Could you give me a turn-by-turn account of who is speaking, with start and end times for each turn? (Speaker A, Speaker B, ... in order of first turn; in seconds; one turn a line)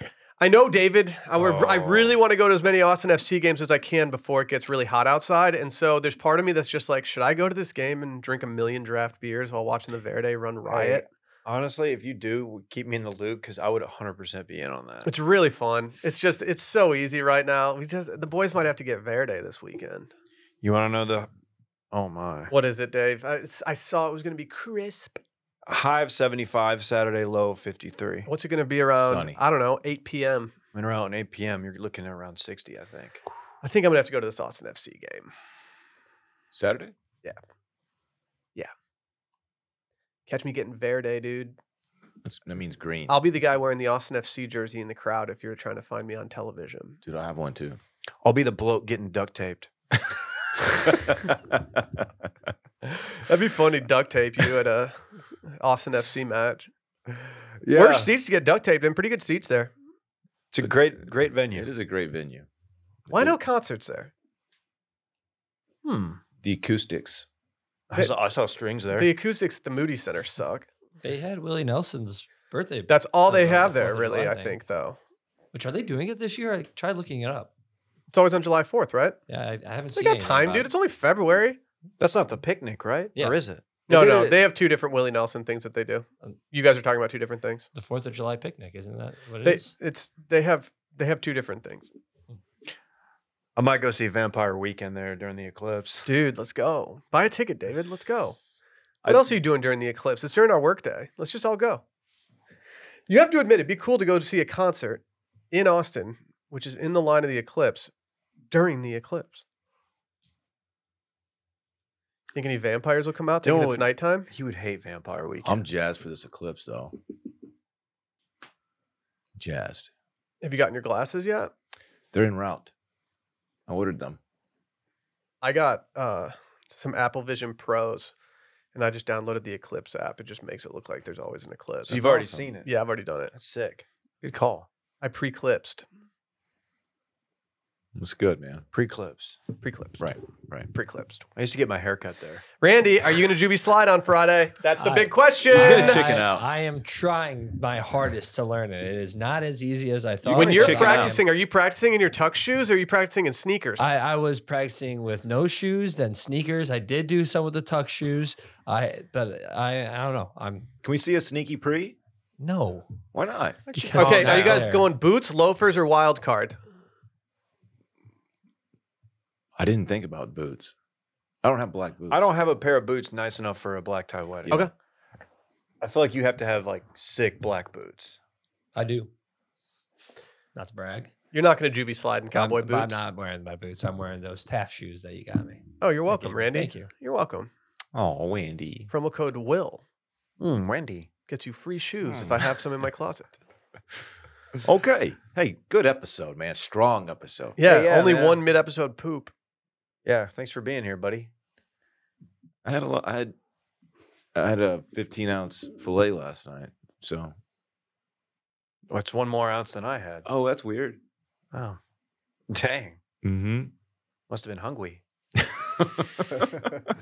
Speaker A: 0.4-11.1
Speaker B: 1.4-2.2
Speaker B: 10.7-15.1
Speaker A: 15.1-20.1
Speaker B: 20.6-21.3
Speaker B: 21.9-22.5
Speaker A: 22.5-25.2
Speaker B: 25.7-28.3
Speaker A: 28.3-30.5
Speaker C: 28.9-29.4
Speaker B: 30.7-33.2
Speaker A: 33.6-35.3
Speaker C: 36.5-36.9
Speaker A: 40.3-41.5
Speaker C: 42.2-43.2
Speaker A: 43.1-47.0
Speaker C: 47.0-47.8
Speaker B: 48.2-49.7
Speaker C: 50.9-51.6
Speaker A: 53.1-56.7
Speaker B: 57.6-58.1
Speaker A: 57.7-59.7
Speaker B: 60.5-61.7
Speaker C: 60.6-62.5
Speaker C: 63.1-63.4
Speaker A: 63.1-64.1
Speaker B: 65.8-66.2
Speaker C: 66.4-67.3
Speaker B: 67.9-69.1
Speaker A: 69.0-70.7
Speaker D: 71.0-74.6
Speaker A: 72.9-75.0
Speaker D: 75.5-77.5
Speaker A: 78.1-79.2
Speaker D: 79.3-80.7
Speaker A: 80.0-81.6
Speaker B: 82.0-84.4
Speaker A: 83.9-87.7
Speaker D: 87.7-89.7
Speaker A: 89.4-91.9
Speaker B: 93.6-96.1
Speaker A: 96.1-98.4
Speaker A: 99.0-101.8
Speaker A: 103.1-107.9
Speaker A: 108.5-109.4
Speaker A: 112.3-114.3
Speaker B: 113.4-115.6
Speaker C: 115.5-117.0
Speaker C: 119.4-119.9
Speaker A: 120.4-121.5
Speaker C: 122.1-122.7
Speaker C: 123.7-124.2
Speaker A: 125.4-128.1
Speaker A: 128.8-132.1
Speaker C: 131.9-132.5
Speaker B: 131.9-132.7
Speaker A: 132.7-133.3
Speaker B: 133.3-134.7
Speaker A: 135.0-135.8
Speaker C: 137.9-138.7
Speaker B: 138.7-139.4
Speaker A: 139.6-140.1
Speaker C: 140.0-140.7
Speaker A: 140.7-141.3
Speaker B: 141.4-142.4
Speaker A: 142.6-146.2
Speaker D: 144.8-151.2
Speaker C: 145.5-146.5
Speaker A: 150.2-153.9
Speaker C: 150.3-151.2
Speaker D: 153.8-160.7
Speaker C: 160.8-162.0
Speaker D: 162.4-162.9
Speaker C: 163.1-164.3
Speaker B: 163.7-164.7
Speaker D: 163.8-164.9
Speaker A: 164.0-166.6
Speaker C: 169.6-170.7
Speaker C: 171.4-172.3
Speaker B: 172.1-174.6
Speaker B: 175.8-178.2
Speaker D: 178.8-179.1
Speaker D: 180.6-181.1
Speaker A: 181.3-183.0
Speaker D: 182.3-186.9
Speaker A: 185.8-187.5
Speaker C: 187.9-188.9
Speaker A: 188.9-189.8
Speaker B: 190.4-191.1
Speaker A: 191.3-193.4
Speaker C: 192.1-192.5
Speaker C: 194.6-197.6
Speaker A: 197.6-199.3
Speaker B: 197.6-198.4
Speaker B: 200.1-201.3
Speaker C: 202.6-203.3
Speaker C: 204.3-207.3
Speaker B: 208.9-210.3
Speaker C: 210.2-211.0
Speaker B: 211.5-211.8
Speaker B: 212.5-213.0
Speaker C: 213.2-213.7
Speaker B: 214.3-215.0
Speaker C: 215.4-216.9